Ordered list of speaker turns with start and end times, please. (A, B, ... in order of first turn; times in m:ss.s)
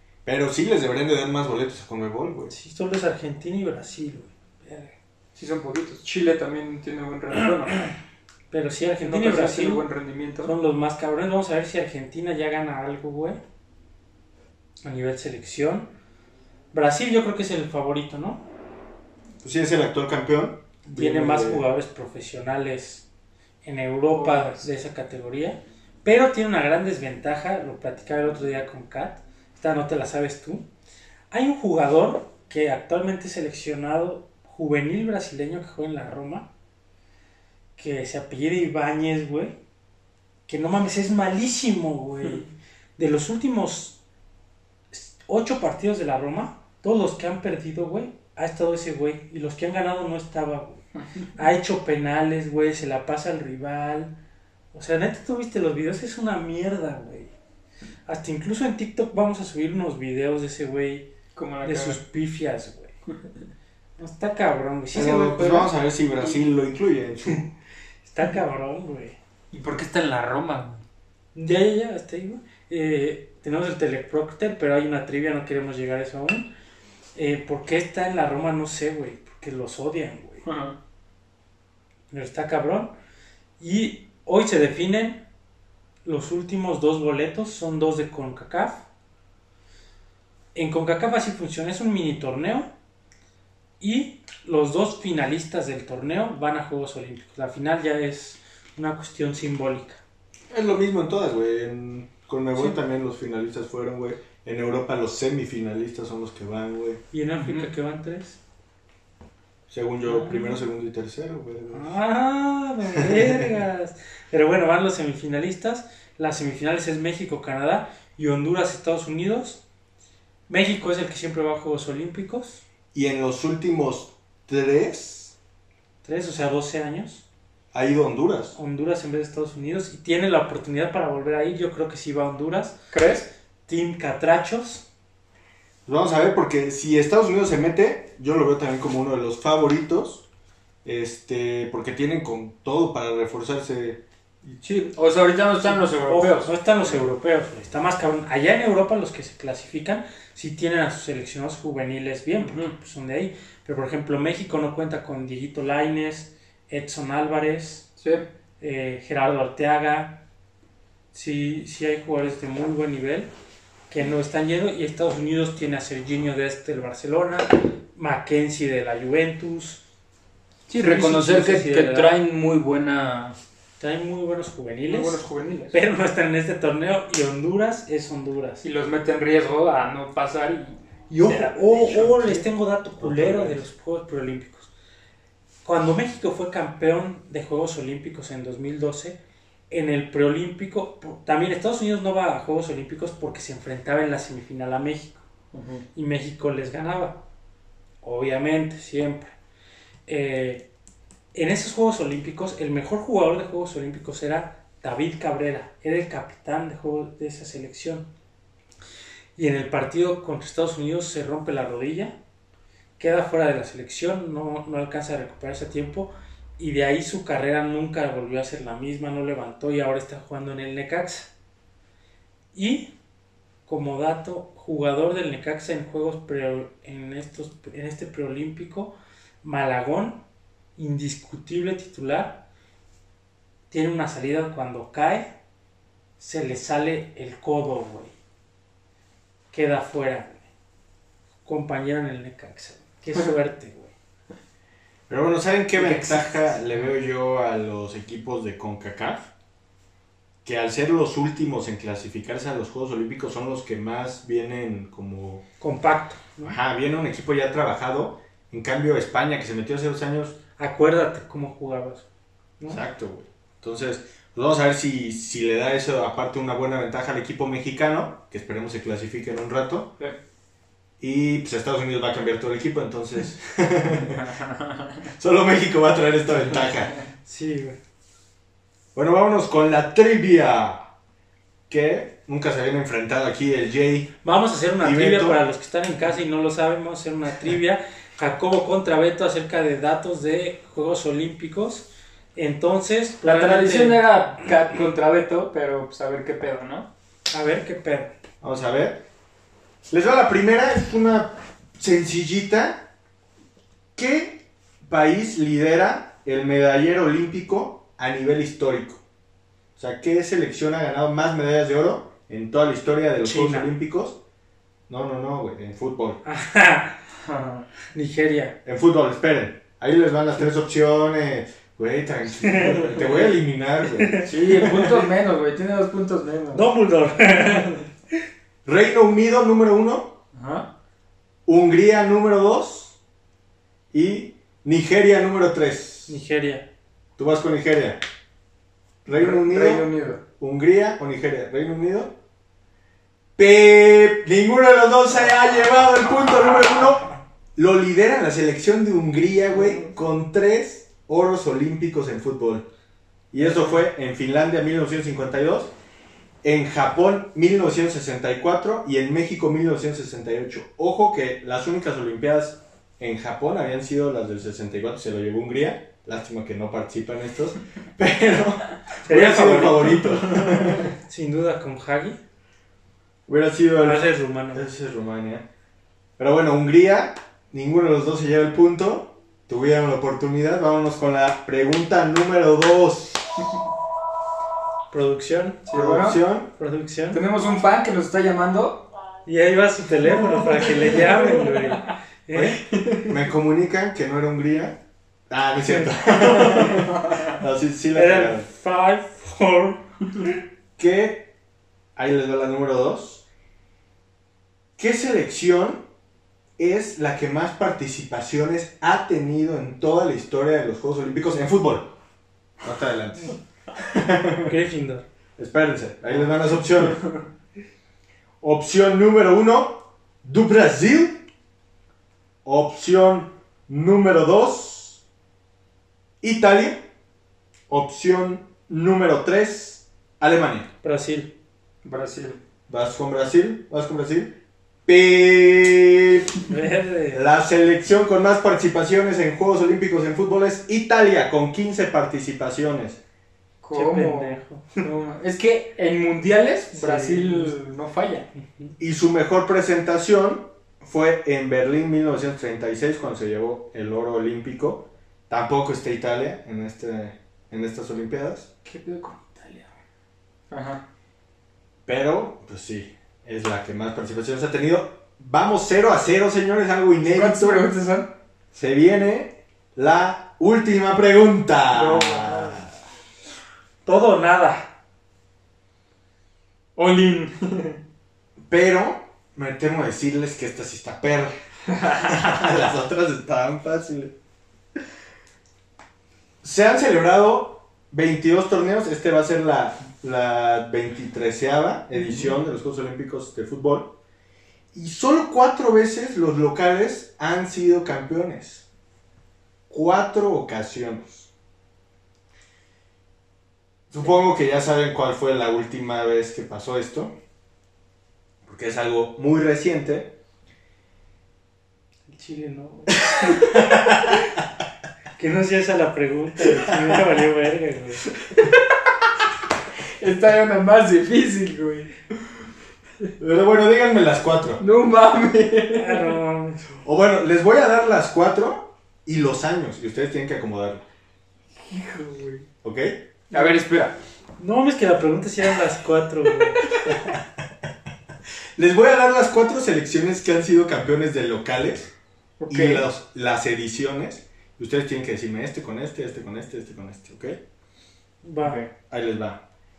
0:00.2-0:02.5 A
0:02.5-0:04.9 B
0:05.3-0:07.9 C
0:08.5-0:09.8 B
0:09.0-0:10.5 C
0:10.4-0:13.4 B
0:14.8-0:15.9 B
0:16.7-0:18.4 B
0:19.4-0:21.6 A
0:20.8-0:23.0 B
0:23.6-0:30.6 B
0:24.1-0:24.7 C
0:31.3-0:36.5 B
0:37.8-0:39.6 B
0:40.5-0:44.0 B
0:44.9-0:50.8 B
0:51.4-0:54.1 B
0:54.7-0:57.3 B
0:58.1-1:01.1 B
1:01.3-1:02.0 C
1:01.6-1:02.9 B
1:04.0-1:05.7 B
1:04.9-1:07.5 A
1:08.0-1:09.2 B
1:09.5-1:10.8 C
1:11.3-1:16.5 B
1:17.1-1:20.4 B
1:20.4-1:20.8 C
1:22.1-1:22.9 B
1:23.6-1:25.2 B
1:26.0-1:28.8 B
1:30.5-1:32.7 B
1:33.8-1:40.0 B
1:40.5-1:47.0 A
1:47.1-1:48.4 B
1:49.7-1:52.0 A
1:50.0-1:50.6 B
1:51.7-1:59.6 B
1:53.0-1:53.5 A
2:00.5-2:02.6 B
2:02.9-2:05.3 A
2:06.0-2:07.2 B
2:07.7-2:08.6 A
2:08.5-2:12.8 B
2:12.9-2:13.3 C
2:13.7-2:14.8 B
2:15.8-2:20.2 A
2:20.8-2:24.6 A
2:24.6-2:26.5 C
2:25.6-2:37.9 B
2:32.4-2:32.7 C
2:38.0-2:38.2 C
2:38.6-2:40.2 B
2:41.1-2:43.3 B
2:43.9-2:49.8 B
2:50.7-2:53.4 C
2:50.8-2:52.1 B
2:53.8-2:58.6 B
2:54.9-2:55.8 C
2:58.6-3:02.3 C
3:01.1-3:04.7 B
3:02.1-3:02.4 A
3:03.0-3:03.7 A
3:05.6-3:09.2 B
3:09.7-3:15.2 B
3:15.5-3:15.8 C
3:15.9-3:17.2 B
3:18.0-3:19.3 B
3:20.1-3:20.7 B
3:21.3-3:28.1 B
3:29.4-3:32.2 B
3:33.0-3:41.3 B
3:42.5-3:42.9 B
3:43.6-3:50.2 B
3:50.8-3:52.4 B
3:53.7-3:55.3 B
3:56.2-3:58.1 B
3:59.5-4:00.4 B
4:01.4-4:03.9 B
4:05.1-4:09.3 A
4:05.8-4:06.3 B
4:10.4-4:15.4 A
4:15.6-4:16.6 B
4:16.4-4:20.4 A
4:20.6-4:22.0 B
4:22.7-4:29.9 A
4:31.0-4:34.3 A
4:34.4-4:34.6 C
4:35.0-4:37.0 A
4:37.2-4:37.8 B
4:38.9-4:40.8 A
4:41.7-4:44.1 A
4:44.2-4:54.0 B
4:44.8-4:45.4 A
4:53.2-4:56.9 C
4:57.3-4:58.1 B
4:58.4-4:59.0 A
4:59.9-5:02.9 A
5:04.0-5:09.0 A
5:09.8-5:14.2 A
5:13.2-5:13.7 B
5:14.9-5:16.2 A
5:16.2-5:17.0 B
5:17.2-5:17.6 C
5:17.9-5:18.6 B
5:18.6-5:25.0 A
5:22.4-5:22.9 B
5:22.9-5:23.3 C
5:24.0-5:24.7 B
5:24.2-5:26.6 C
5:26.5-5:27.8 B
5:28.6-5:30.2 A
5:30.3-5:30.7 C
5:31.4-5:33.0 A
5:33.9-5:36.2 A
5:36.1-5:36.7 B
5:37.2-5:38.0 A
5:39.0-5:42.2 A
5:39.1-5:40.2 C
5:43.4-5:52.7 A
5:49.5-5:49.9 C
5:53.3-5:55.7 A
5:56.4-6:10.9 A
6:09.0-6:12.2 B
6:13.3-6:15.4 A
6:13.8-6:14.6 B
6:16.2-6:23.5 A
6:24.9-6:25.7 B
6:25.7-6:26.2 C
6:25.7-6:26.5 A
6:26.6-6:27.2 B
6:27.1-6:28.9 C
6:29.2-6:32.6 B
6:30.2-6:31.9 C
6:32.3-6:38.5 A
6:32.7-6:33.2 C
6:35.6-6:36.9 B
6:37.9-6:39.8 B
6:40.8-6:41.3 A
6:42.0-6:43.2 A
6:44.8-6:45.8 A
6:46.6-6:51.9 A
6:52.6-6:54.5 A
6:54.4-6:55.0 B
6:55.4-6:57.0 A
6:58.4-7:01.2 A
7:02.4-7:05.0 A
7:06.2-7:06.8 A
7:07.7-7:10.7 A
7:10.8-7:11.3 B
7:11.8-7:12.4 C
7:12.7-7:16.4 A
7:16.5-7:17.2 B
7:17.1-7:23.0 A
7:23.6-7:28.3 C
7:23.7-7:24.8 B
7:26.7-7:27.5 B
7:28.4-7:28.7 B
7:28.8-7:38.5 A
7:38.6-7:39.7 C
7:40.5-7:40.8 C
7:41.8-7:47.7 A
7:47.1-7:48.1 C
7:48.5-7:52.7 A
7:51.7-7:52.6 C
7:53.8-7:54.7 B
7:56.8-7:57.8 C
7:58.5-8:01.3 A
8:01.8-8:04.1 A
8:06.4-8:14.0 A
8:14.7-8:18.7 A
8:19.7-8:21.3 A
8:23.9-8:27.1 A
8:28.4-8:30.1 A
8:32.1-8:34.1 B
8:33.4-8:34.3 A
8:35.2-8:38.1 B
8:38.3-8:38.6 C
8:40.0-8:41.9 C
8:43.2-8:44.6 A
8:44.6-8:46.2 C
8:45.7-8:46.7 B
8:46.8-8:50.8 A
8:51.7-8:52.5 C
8:52.6-8:53.0 A
8:53.3-8:54.0 C
8:54.4-8:56.7 B
8:56.8-8:57.2 A
8:58.6-9:01.9 A
9:02.4-9:02.8 C
9:02.5-9:07.4 A
9:08.2-9:08.6 B
9:08.4-9:08.7 C
9:08.9-9:09.4 A